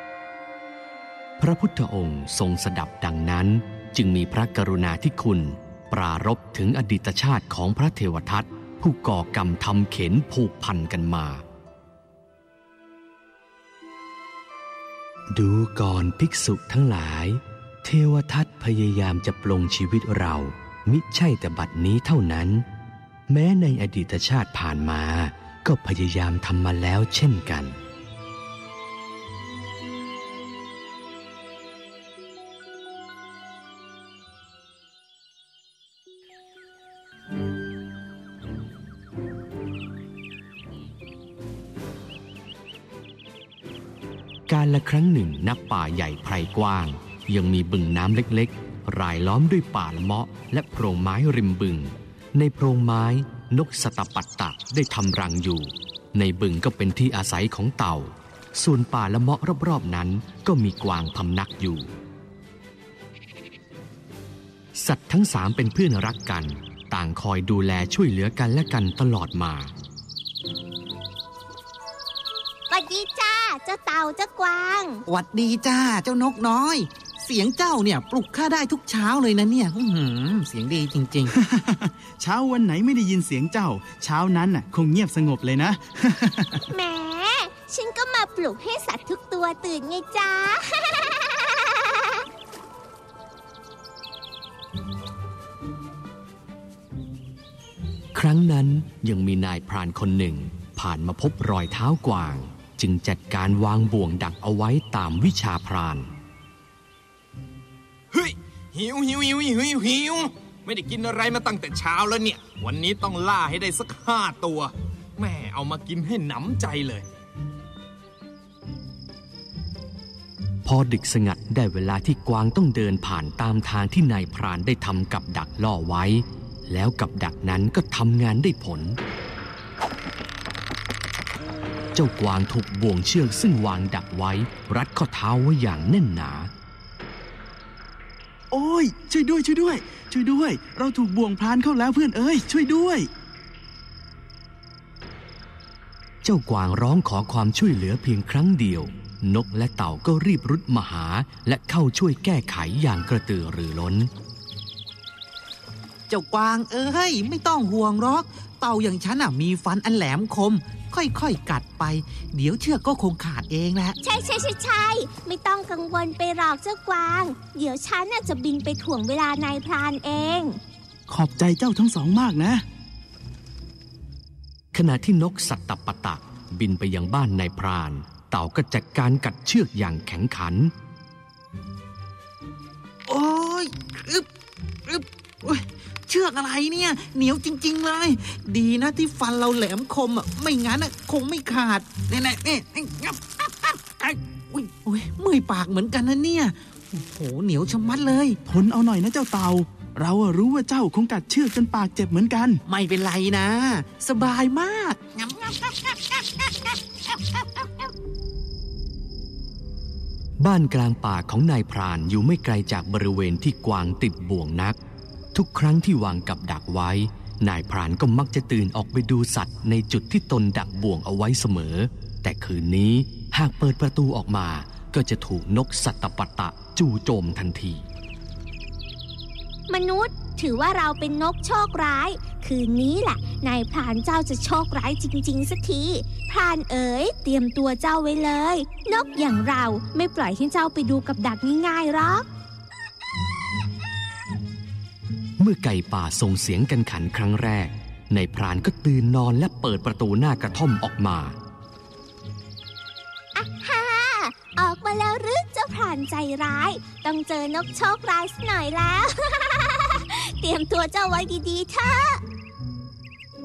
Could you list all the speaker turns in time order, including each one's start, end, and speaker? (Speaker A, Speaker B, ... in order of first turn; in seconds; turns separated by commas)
Speaker A: 1.4-11.4, Speaker A: 15.3-22.7, Speaker A: 23.3-27.8, Speaker A: 44.5-61.9, Speaker A: 64.8-69.7, Speaker B: 72.7-75.0, Speaker C: 75.1-81.3, Speaker D: 81.3-86.6, Speaker B: 86.7-92.2, Speaker A: 98.1-106.1, Speaker E: 108.1-117.1, Speaker A: 120.7-129.0, Speaker A: 131.9-136.5, Speaker D: 138.5-143.1, Speaker A: 146.2-154.1, Speaker C: 156.1-164.0, Speaker B: 164.0-170.6, Speaker D: 171.1-172.6, Speaker A: 174.7-180.7, Speaker C: 183.1-184.3, Speaker C: 184.8-198.4, Speaker D: 198.5-202.6, Speaker C: 202.7-207.9, Speaker A: 210.4-214.8, Speaker A: 215.3-227.8, Speaker B: 229.7-242.3, Speaker A: 245.4-251.4, Speaker B: 253.3-262.2